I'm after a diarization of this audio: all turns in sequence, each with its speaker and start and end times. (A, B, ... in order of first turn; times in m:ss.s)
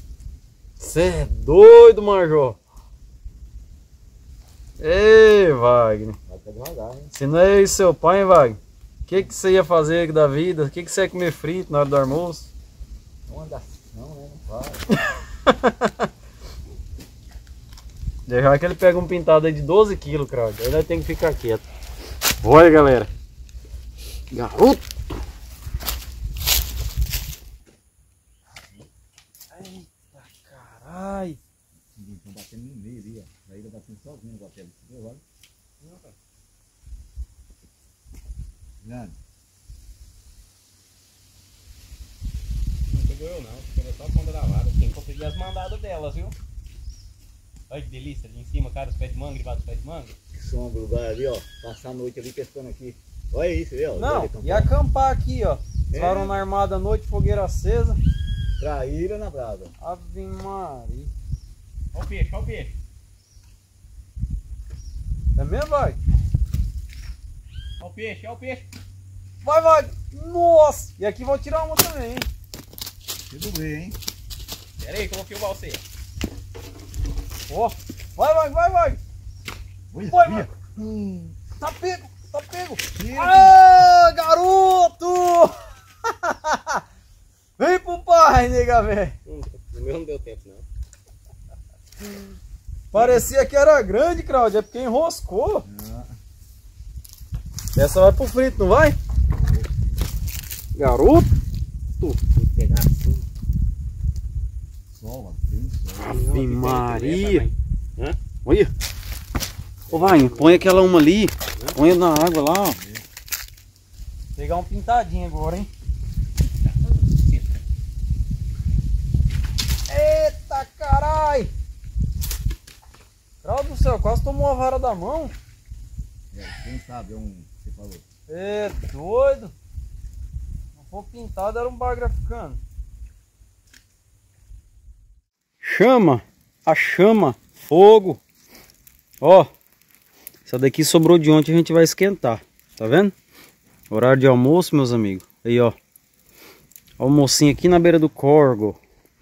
0:00.8-0:02.6 A
0:04.8-0:06.2 A
0:06.3-0:07.1 B
0:07.1-0:12.5 A
0:13.3-0:14.8 B
0:15.1-0:16.1 A
0:18.3-0:21.6 A
0:22.4-0:23.1 A
0:24.3-0:24.9 A
0:29.5-0:31.4 A
0:31.9-0:35.2 B
0:35.8-0:36.2 C
0:38.8-0:39.2 B
0:42.9-0:46.4 C
0:47.7-0:50.2 C
0:50.3-0:54.7 B
0:54.0-0:58.0 A
0:55.9-0:56.4 B
0:58.6-0:59.7 B
0:59.8-1:01.1 A
1:01.9-1:02.7 C
1:05.4-1:06.0 A
1:07.8-1:08.7 C
1:09.4-1:12.3 A
1:13.3-1:14.0 B
1:14.8-1:15.8 C
1:17.5-1:19.0 A
1:19.9-1:21.4 B
1:20.0-1:20.5 A
1:21.6-1:25.5 A
1:23.0-1:23.6 B
1:26.0-1:26.8 A
1:27.6-1:29.2 A
1:29.3-1:30.6 C
1:32.9-1:35.7 A
1:35.7-1:36.2 B
1:37.8-1:39.0 A
1:39.5-1:39.8 B
1:40.8-1:41.3 A
1:42.4-1:43.3 C
1:44.9-1:46.3 B
1:46.0-1:48.2 C
1:46.0-1:47.5 A
1:48.4-1:48.7 A
1:49.9-1:50.9 C
1:49.9-1:52.8 A
1:52.8-1:53.0 B
1:54.4-1:55.7 A
1:56.7-1:57.6 C
1:59.9-2:01.5 A
2:03.4-2:05.3 A
2:06.3-2:08.0 B
2:08.3-2:09.5 A
2:10.8-2:12.6 A
2:15.6-2:18.2 A
2:19.2-2:19.5 A
2:20.4-2:23.1 A
2:23.9-2:25.8 A
2:27.0-2:28.8 A